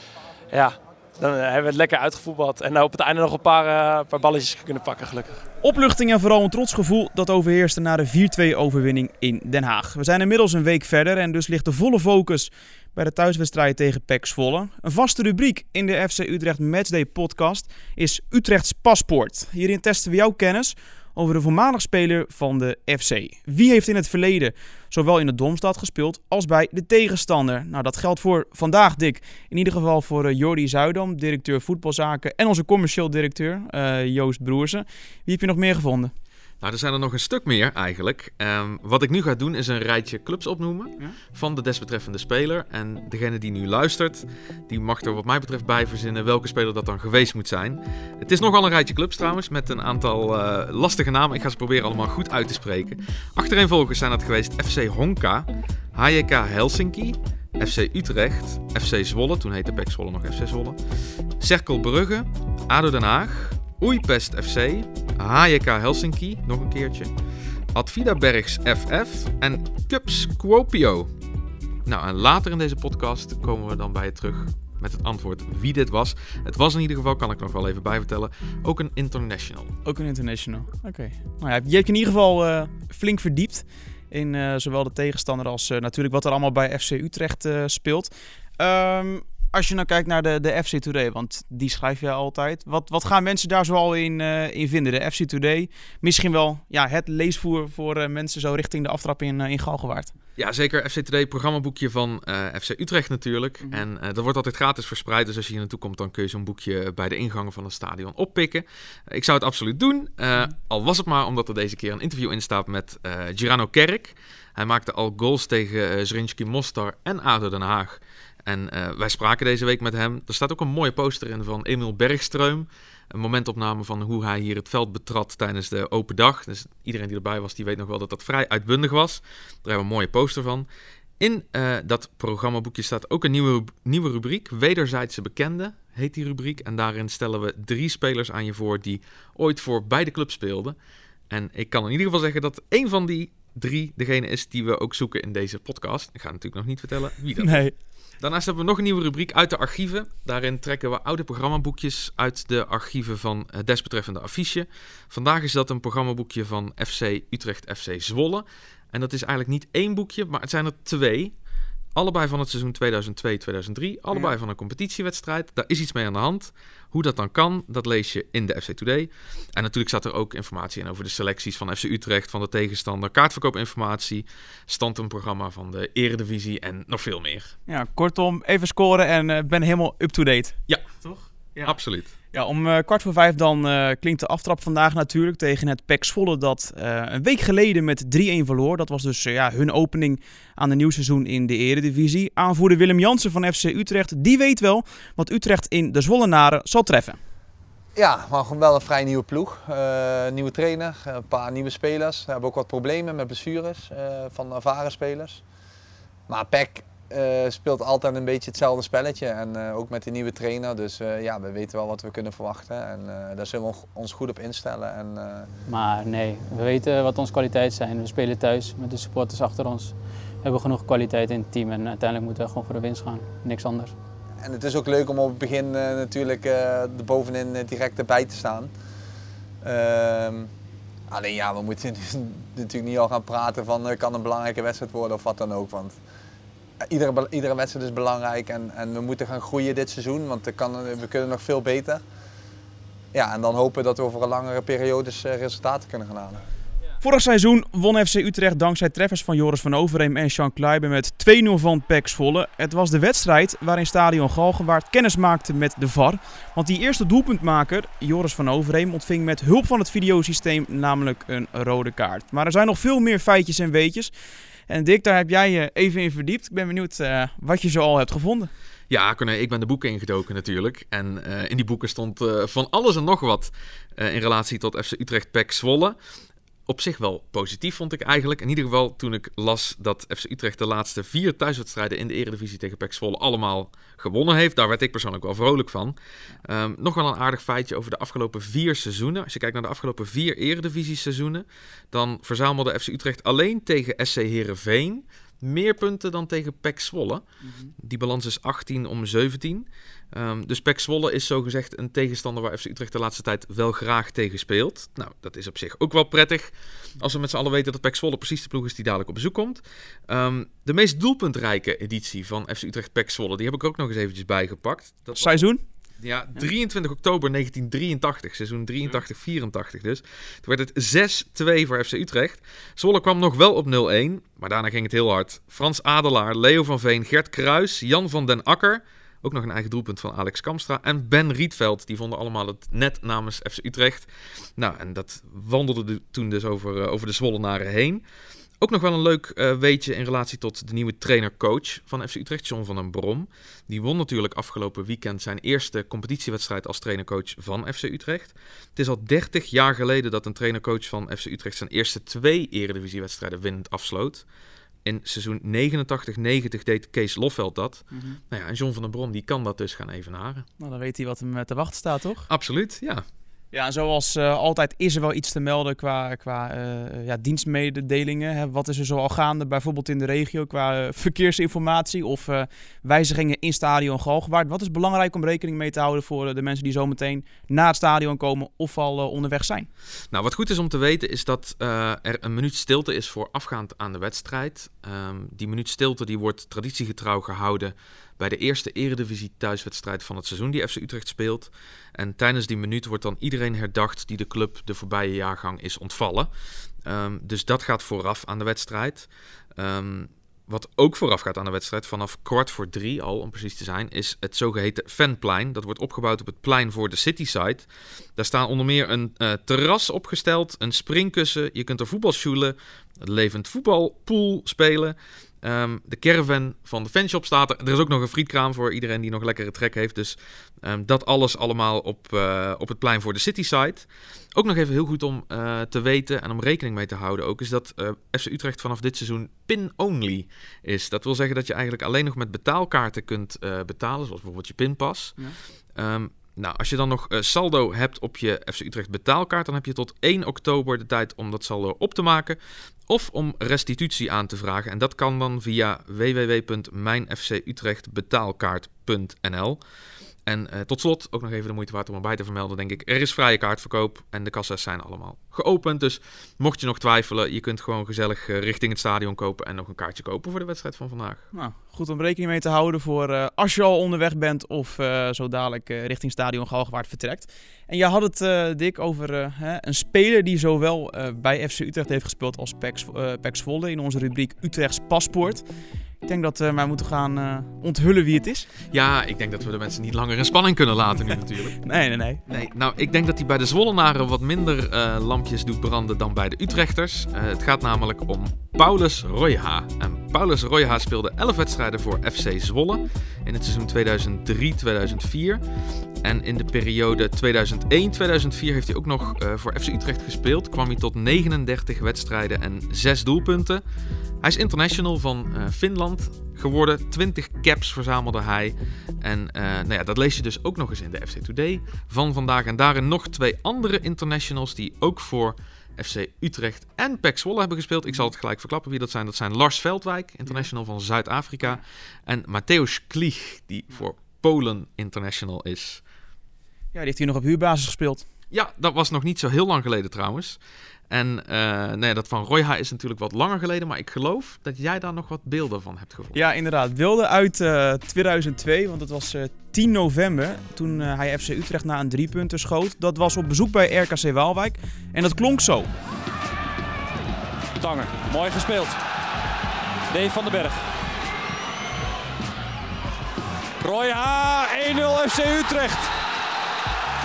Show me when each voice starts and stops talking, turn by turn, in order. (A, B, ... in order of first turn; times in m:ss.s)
0:00.5-0:05.4 A
0:05.6-0:36.1 B
0:36.6-1:00.8 C
1:01.4-1:07.1 C
1:07.7-1:11.1 C
1:11.8-1:19.7 C
1:19.8-1:40.1 B
1:40.4-2:10.7 C
2:11.2-2:20.8 C
2:21.3-2:27.6 C
2:27.4-2:27.7 B
2:28.2-2:41.3 C
2:42.0-2:57.6 C
2:57.7-3:01.7 B
3:01.6-3:02.1 C
3:02.3-3:17.2 B
3:18.0-3:25.4 D
3:26.3-3:35.5 D
3:35.7-3:43.9 E
3:44.4-3:48.7 D
3:49.6-3:50.5 D
3:51.1-3:56.0 D
3:56.9-4:02.0 D
4:03.1-4:06.4 D
4:07.0-4:24.1 B
4:24.7-4:28.5 B
4:28.9-4:36.0 C
4:36.7-4:57.2 C
4:57.8-5:15.4 C
5:15.1-5:15.6 B
5:16.0-5:38.0 C
5:38.6-5:54.2 C
5:54.8-6:00.4 C
5:57.9-5:58.2 B
6:00.6-6:02.3 B
6:02.3-6:03.0 C
6:03.5-6:19.7 B
6:20.1-6:36.3 C
6:36.8-7:15.2 C
7:15.8-7:22.4 C
7:22.9-7:29.6 C
7:30.3-7:41.2 C
7:41.3-7:55.4 B
7:56.0-7:58.5 B
7:58.7-8:01.6 C
8:01.6-8:02.2 B
8:02.3-8:15.4 C
8:16.0-8:23.6 C
8:24.2-8:45.8 C
8:46.7-8:48.0 B
8:48.3-8:50.4 C
8:50.9-8:56.2 C
8:56.1-9:05.7 B
9:07.6-9:08.7 F
9:09.9-9:10.6 F
9:13.6-9:15.9 F